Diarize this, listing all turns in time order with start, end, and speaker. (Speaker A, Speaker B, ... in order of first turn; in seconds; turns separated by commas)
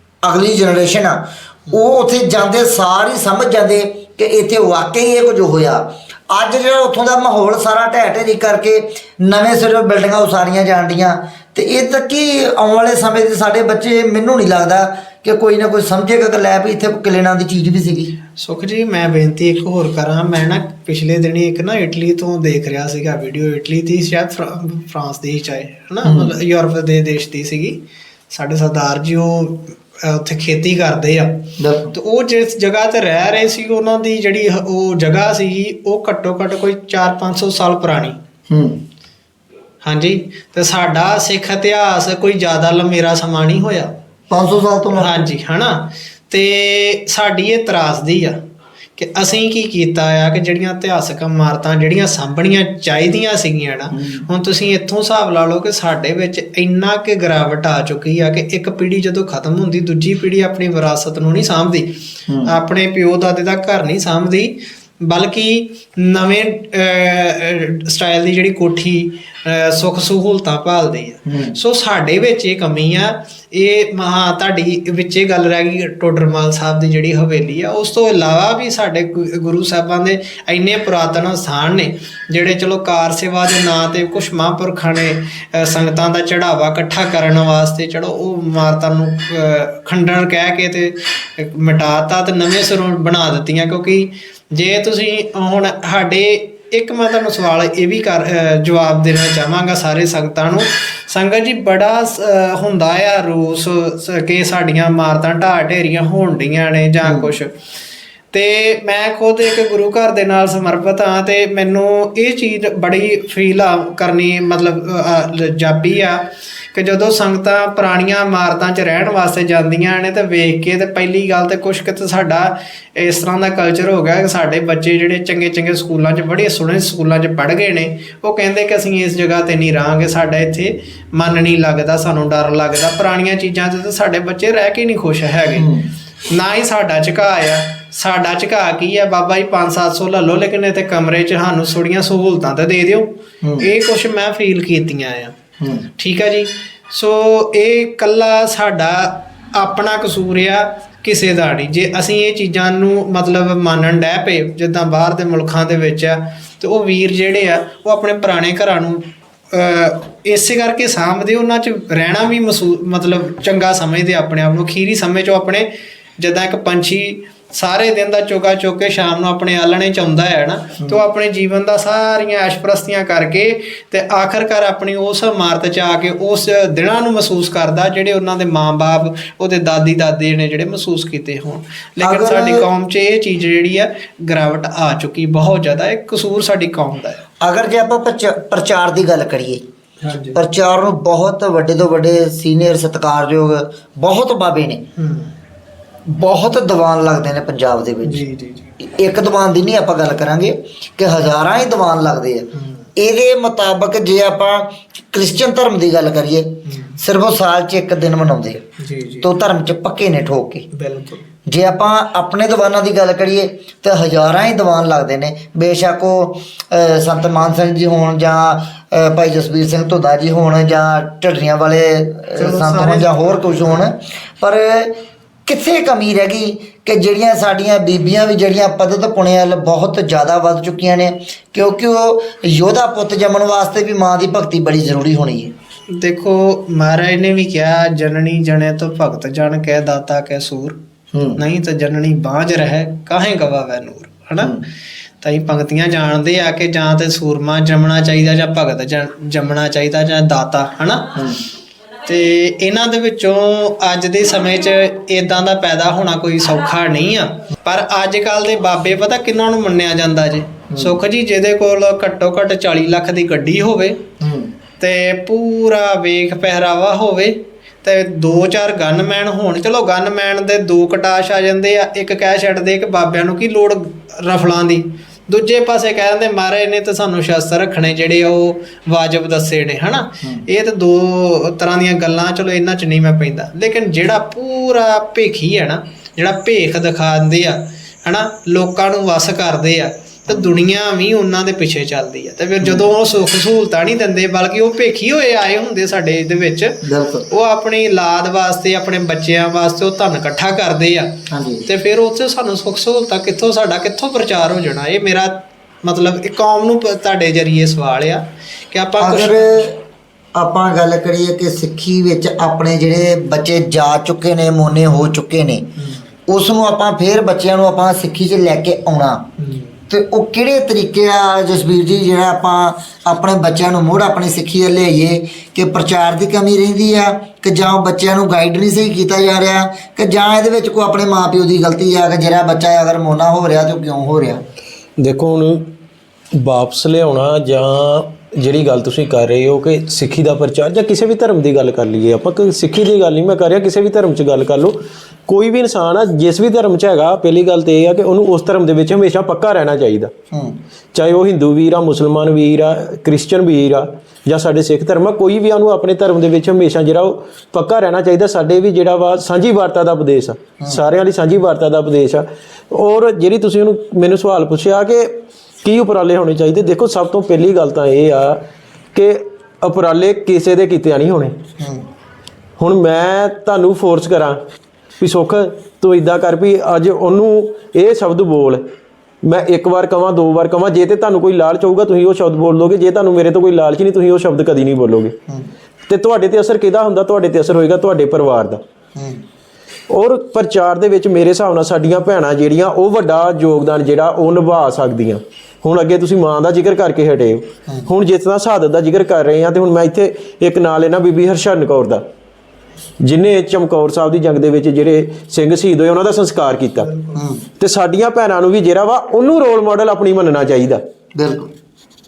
Speaker A: 0.2-18.1, Speaker B: 18.4-38.2, Speaker A: 26.0-26.3, Speaker A: 31.6-31.9, Speaker A: 38.5-38.8, Speaker B: 39.8-44.0, Speaker A: 44.3-45.2, Speaker B: 45.0-48.4, Speaker B: 49.0-107.5, Speaker A: 53.9-54.2, Speaker A: 62.3-62.5, Speaker A: 71.2-71.6, Speaker A: 107.0-107.3, Speaker B: 108.3-135.7, Speaker A: 135.6-135.9, Speaker B: 136.2-145.4, Speaker A: 143.4-143.7, Speaker A: 145.6-145.9, Speaker B: 146.0-187.2, Speaker A: 182.0-182.7, Speaker A: 187.4-189.6, Speaker B: 190.0-190.4, Speaker A: 190.3-194.9, Speaker B: 195.0-195.3, Speaker A: 196.1-198.2, Speaker B: 198.0-198.7, Speaker A: 198.8-208.6, Speaker B: 202.5-202.9, Speaker B: 206.7-207.0, Speaker B: 208.8-209.3, Speaker A: 209.2-210.7, Speaker B: 210.7-211.2, Speaker A: 211.4-235.5, Speaker B: 222.4-223.9, Speaker B: 235.9-240.8, Speaker A: 241.1-241.4, Speaker B: 241.4-244.6, Speaker A: 244.4-244.6, Speaker B: 245.2-251.2, Speaker A: 251.2-251.4, Speaker B: 252.0-264.0, Speaker A: 260.7-260.9, Speaker A: 264.2-264.5, Speaker B: 264.8-309.7, Speaker A: 296.8-297.3, Speaker A: 301.3-301.6, Speaker A: 309.0-309.8, Speaker A: 310.3-315.7, Speaker B: 315.8-316.0, Speaker A: 316.3-319.3, Speaker B: 319.4-319.8, Speaker A: 319.9-334.4, Speaker C: 335.0-335.7, Speaker C: 336.3-350.1, Speaker A: 350.3-350.6, Speaker C: 350.9-371.4, Speaker A: 371.6-371.9, Speaker C: 372.6-374.4, Speaker C: 375.0-378.6, Speaker C: 379.2-385.1, Speaker C: 385.9-388.6, Speaker A: 388.9-389.2, Speaker C: 389.9-402.0, Speaker C: 403.0-406.9, Speaker A: 407.1-407.5, Speaker C: 407.6-410.8, Speaker A: 411.1-411.5